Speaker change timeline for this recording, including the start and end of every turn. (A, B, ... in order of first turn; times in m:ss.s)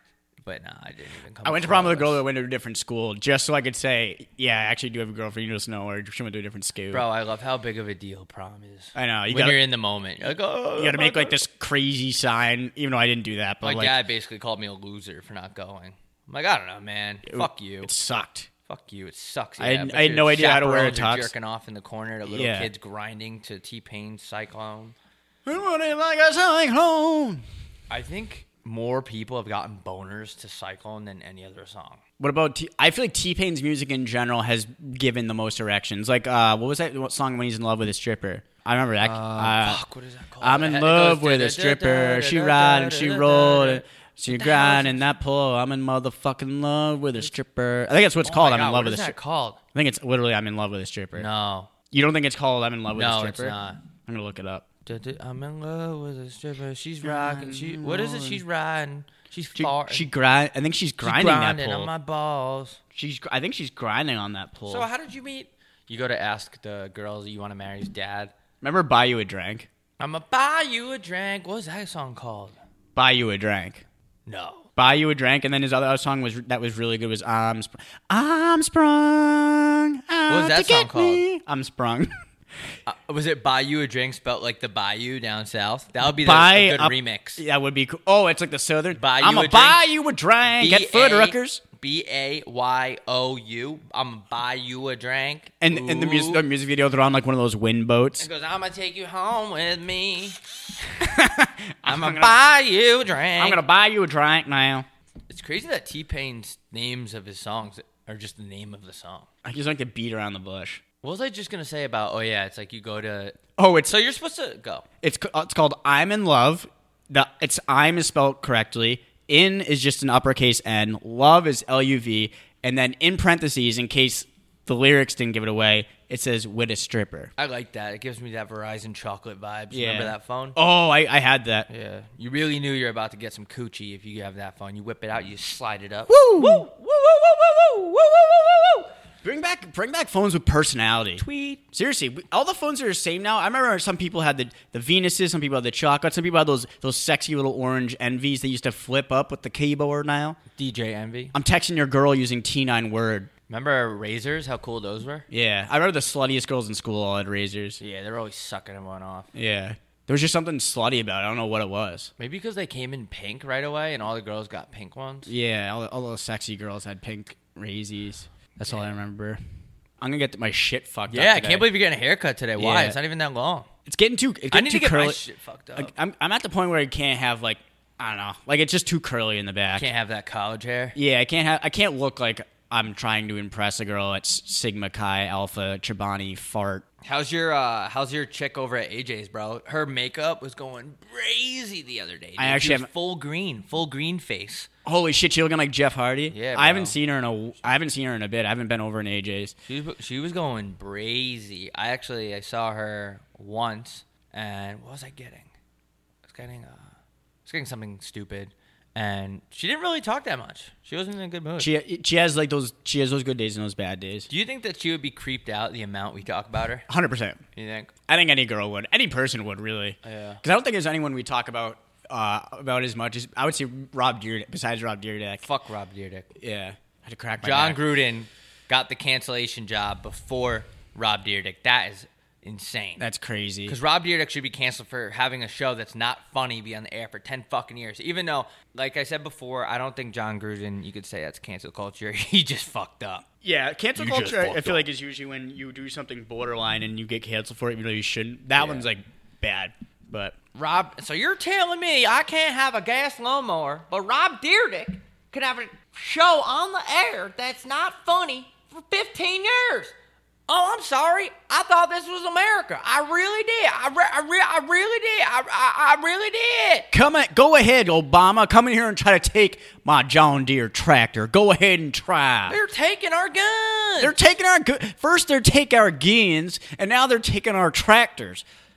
0:00.4-0:02.2 A
0:01.4-0:07.0 B
0:06.9-0:11.4 A
0:08.9-0:09.6 B
0:10.8-0:14.0 B
0:13.6-0:17.9 A
0:17.2-0:18.5 B
0:18.7-0:25.0 A
0:19.6-0:21.3 B
0:22.2-0:22.7 B
0:25.4-0:27.4 B
0:27.9-0:32.0 A
0:32.2-0:39.8 B
0:39.0-0:45.0 A
0:40.4-0:49.2 B
0:48.2-0:49.6 A
0:49.7-0:51.3 B
0:51.2-0:51.7 A
0:51.9-0:54.6 B
0:52.9-0:53.8 A
0:54.8-1:00.1 A
0:57.0-0:58.4 B
0:59.5-1:01.9 B
1:01.0-1:02.8 A
1:02.9-1:04.9 B
1:04.7-1:08.3 A
1:08.6-1:09.7 B
1:10.0-1:12.6 A
1:13.0-1:13.8 B
1:14.3-1:14.7 A
1:14.8-1:22.1 B
1:20.3-1:21.2 A
1:22.8-1:27.4 A
1:26.0-1:31.6 B
1:28.9-1:29.8 A
1:30.6-1:36.4 A
1:35.6-1:38.3 B
1:38.2-1:40.4 A
1:41.0-1:42.4 B
1:41.8-1:43.6 A
1:43.4-1:44.8 B
1:45.3-1:49.3 A
1:49.4-1:50.8 B
1:51.0-1:54.8 A
1:53.6-1:53.9 B
1:55.0-2:07.3 B
2:07.4-2:10.6 A
2:09.7-2:11.7 B
2:11.7-2:18.9 A
2:16.1-2:16.7 B
2:19.2-2:30.4 B
2:21.2-2:21.6 A
2:30.6-2:31.3 A
2:31.3-2:33.3 B
2:33.5-2:35.3 A
2:35.3-2:37.8 B
2:37.8-2:39.3 A
2:39.3-2:42.1 B
2:42.2-2:45.3 A
2:45.3-2:49.4 B
2:50.0-2:51.7 B
2:51.1-2:53.7 A
2:52.6-2:53.0 B
2:53.8-2:55.2 B
2:54.5-2:55.9 A
2:55.8-2:59.9 B
2:59.7-3:01.0 A
3:01.0-3:06.8 B
3:07.0-3:14.7 A
3:12.4-3:12.9 B
3:14.8-3:19.5 B
3:16.3-3:17.0 A
3:19.7-3:25.5 A
3:26.2-3:26.9 A
3:27.4-3:31.7 A
3:31.6-3:34.3 B
3:34.3-3:36.9 A
3:36.9-3:37.4 B
3:37.5-3:37.9 A
3:38.1-3:45.4 B
3:40.0-3:40.4 A
3:45.4-3:46.3 A
3:46.4-3:47.8 B
3:47.4-3:53.0 A
3:53.0-3:53.8 B
3:53.7-4:03.2 A
4:03.4-4:10.3 B
4:04.0-4:04.8 A
4:08.6-4:08.9 A
4:10.5-4:19.9 A
4:20.5-4:26.9 A
4:26.9-4:32.6 B
4:32.5-4:34.2 A
4:34.0-4:38.4 B